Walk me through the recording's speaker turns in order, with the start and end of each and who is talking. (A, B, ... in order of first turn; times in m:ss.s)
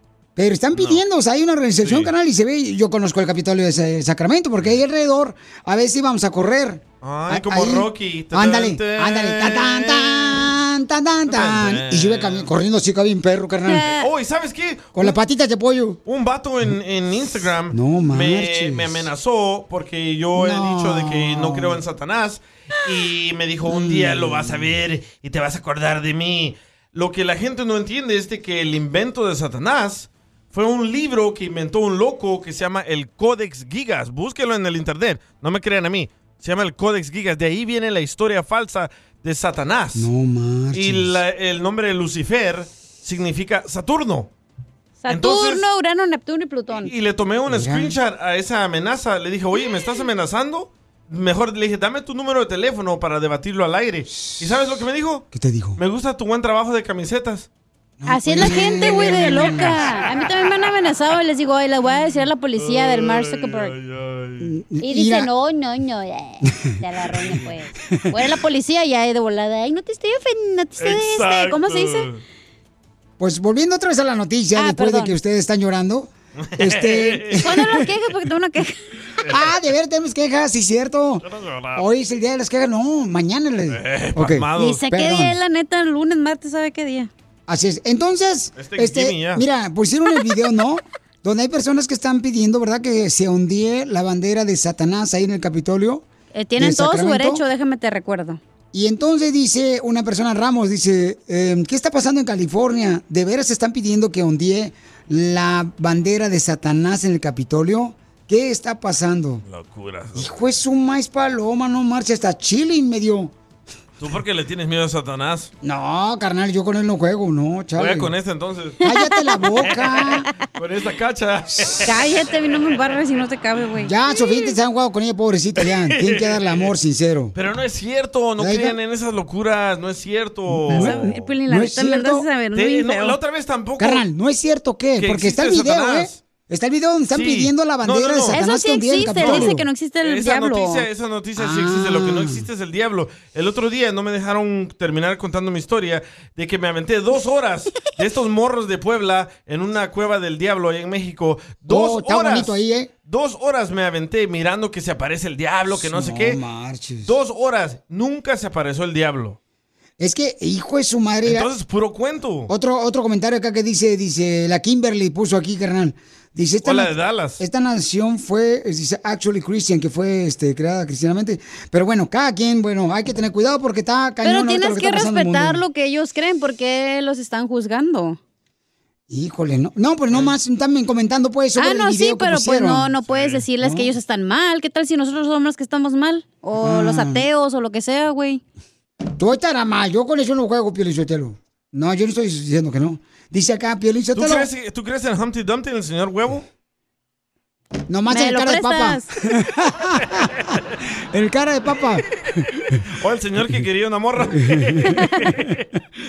0:00.4-0:13.9 A
0:00.7-0:01.0 B
0:01.8-0:02.1 B
0:07.0-0:10.5 B
0:11.3-0:12.5 B
0:13.7-0:14.1 C
0:13.9-0:15.2 B
0:15.0-0:16.0 A
0:16.1-0:40.1 B
0:17.7-0:19.1 A
0:20.4-0:21.8 A
0:23.6-0:24.7 A
0:40.0-0:41.2 A
0:40.7-0:44.3 B
0:45.0-0:46.9 C
0:45.1-0:45.6 B
0:46.8-0:55.2 B
0:47.5-0:48.0 A
0:54.1-0:54.4 A
0:55.3-0:55.8 A
0:55.8-0:57.5 B
0:58.0-0:59.9 A
0:58.1-1:03.7 C
1:02.6-1:04.5 B
1:04.4-1:05.3 A
1:04.8-1:12.1 C
1:07.9-1:08.1 A
1:10.8-1:12.2 B
1:13.2-1:17.9 A
1:14.6-1:15.2 C
1:16.4-1:17.4 B
1:17.4-1:18.8 C
1:19.2-1:19.5 B
1:19.3-1:25.4 A
1:21.2-1:21.9 B
1:23.7-1:24.8 B
1:24.6-1:27.1 C
1:27.5-1:36.0 A
1:28.6-1:29.4 B
1:36.3-1:38.4 C
1:36.6-1:37.4 A
1:38.7-1:49.4 A
1:49.4-1:50.3 B
1:50.2-1:53.3 A
1:54.0-1:55.5 B
1:55.6-1:58.1 A
1:57.8-1:58.8 B
1:58.8-2:00.3 A
1:58.9-1:59.4 C
1:59.7-2:01.9 B
2:01.8-2:04.5 C
2:03.8-2:07.3 A
2:05.6-2:06.7 B
2:07.3-2:11.3 B
2:08.4-2:08.8 A
2:10.5-2:12.3 A
2:10.7-2:13.2 C
2:12.5-2:14.0 B
2:13.8-2:19.6 A
2:15.0-2:16.2 B
2:17.1-2:18.4 B
2:18.3-2:20.8 C
2:19.2-2:36.4 B
2:21.4-2:22.5 A
2:31.7-2:32.9 A
2:35.7-2:37.1 A
2:37.0-2:39.4 B
2:40.0-2:41.5 A
2:41.3-2:42.5 B
2:42.5-2:55.6 A
2:46.6-2:47.4 B
2:54.2-2:58.2 C
2:59.1-3:02.9 A
3:01.6-3:08.4 C
3:03.1-3:03.4 B
3:03.6-3:03.9 A
3:06.6-3:07.3 A
3:09.2-3:14.5 A
3:14.2-3:16.4 B
3:17.9-3:20.3 A
3:18.1-3:19.1 C
3:21.1-3:22.4 A
3:23.0-3:25.6 B
3:24.3-3:25.5 A